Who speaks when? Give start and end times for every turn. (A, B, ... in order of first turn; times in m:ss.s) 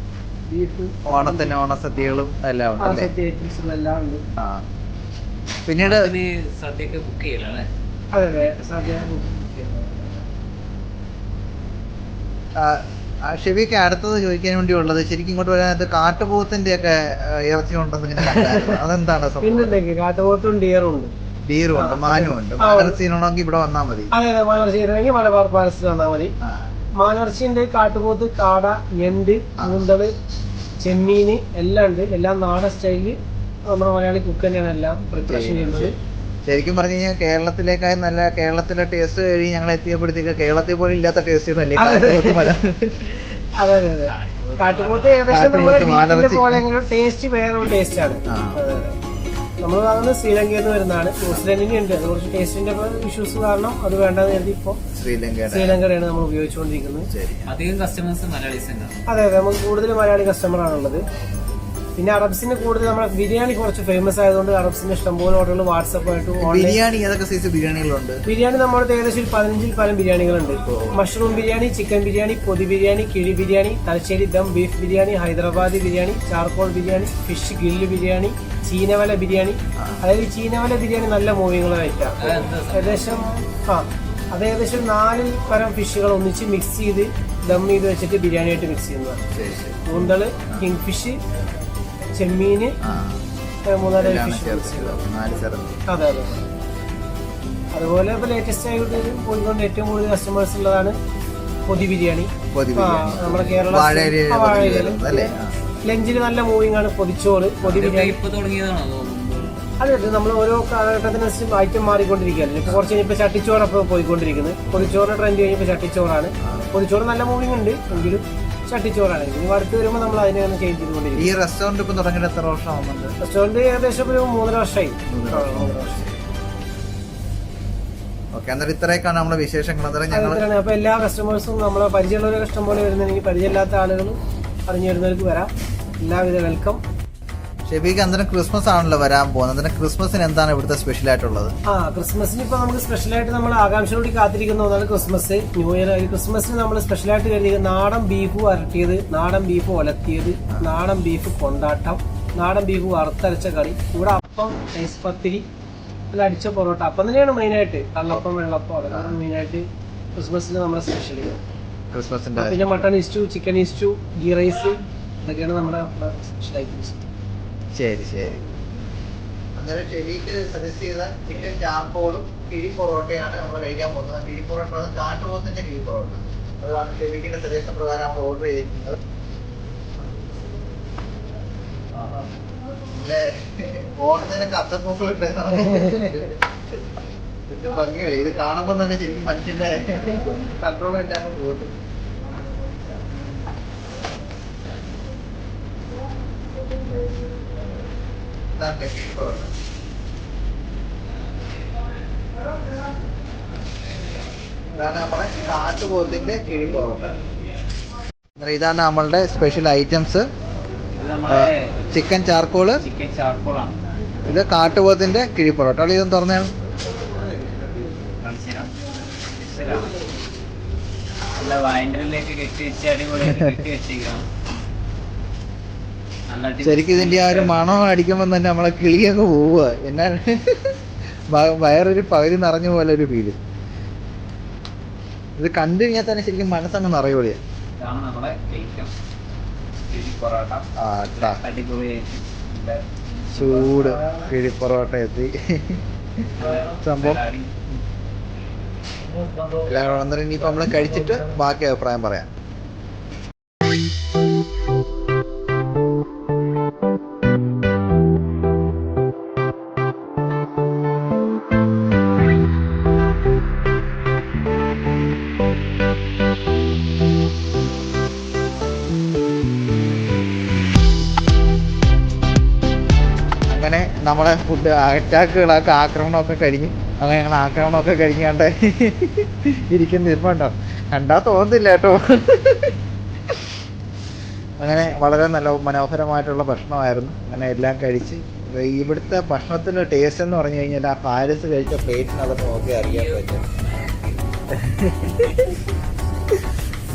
0:00.5-0:01.5 A
0:01.0-0:03.1 B
0:02.8-0:04.2 A
0:04.4-0:04.6 B
0:05.6-0:06.1 B
0:05.8-0:07.7 C
0:08.1-0:09.3 A
0:09.6-0:10.0 B
0:12.6-0:19.7 B
0:18.2-0:18.8 A
0:19.4-0:21.1 A
0:21.5-0:24.1 B
0:21.7-0:23.0 A
0:24.1-0:26.3 A
0:27.0-0:30.1 A
0:30.8-0:33.2 A
0:33.7-0:35.9 A
0:35.2-0:35.9 B
0:36.4-0:43.3 B
0:41.8-0:42.5 A
0:43.6-0:49.0 A
0:44.1-0:45.4 C
0:45.3-0:46.6 B
0:48.3-0:48.6 B
0:49.6-0:54.8 A
0:54.9-0:55.8 B
0:55.5-0:57.1 A
0:57.1-0:57.5 B
0:57.5-0:59.0 C
0:59.1-1:01.0 A
1:02.0-1:06.8 A
1:06.4-1:08.2 B
1:08.2-1:29.2 A
1:10.7-1:11.0 B
1:19.8-1:20.0 B
1:22.2-1:23.3 C
1:29.3-1:30.6 B
1:29.8-1:31.2 A
1:32.1-1:32.8 A
1:32.8-1:33.2 B
1:33.7-1:35.0 A
1:33.9-1:35.8 B
1:35.9-1:36.4 A
1:37.7-1:41.0 A
1:41.6-1:45.3 A
1:42.5-1:45.5 B
1:45.8-1:48.2 A
1:47.6-1:49.6 C
1:49.8-2:01.3 A
1:56.4-1:56.7 B
2:01.2-2:03.2 B
2:03.2-2:06.0 A
2:05.1-2:06.2 B
2:08.3-2:10.4 B
2:10.1-2:15.5 A
2:16.0-2:16.8 A
2:17.6-2:21.5 B
2:21.7-2:35.4 A
2:36.1-2:41.4 A
2:38.9-2:39.2 B
2:41.9-2:42.6 B
2:42.4-2:47.0 A
2:47.7-2:48.4 B
2:49.6-2:59.0 B
3:02.0-3:02.2 B
3:02.9-3:06.4 B
3:07.5-3:11.7 B
3:18.6-3:19.5 B
3:24.7-3:27.2 B
3:28.4-3:30.3 B
3:30.9-3:31.8 C
3:31.3-3:32.8 B
3:32.8-3:33.7 C
3:34.3-3:36.5 B
3:38.2-3:38.7 C
3:39.3-3:39.9 C
3:41.4-3:44.2 C
3:43.2-3:43.5 B
3:46.3-3:47.6 C
3:46.6-3:50.8 B
3:51.3-3:53.4 B
3:55.4-3:57.4 B
3:57.8-3:58.9 C
3:59.9-4:04.2 C
4:00.8-4:01.4 B
4:03.3-4:05.8 B
4:06.4-4:07.6 C
4:06.4-4:07.2 B
4:09.1-4:09.7 C
4:09.6-4:12.3 B
4:10.7-4:11.0 C
4:33.5-4:42.8 B
4:44.6-4:53.4 B
4:52.7-4:54.2 C
4:54.5-4:55.6 B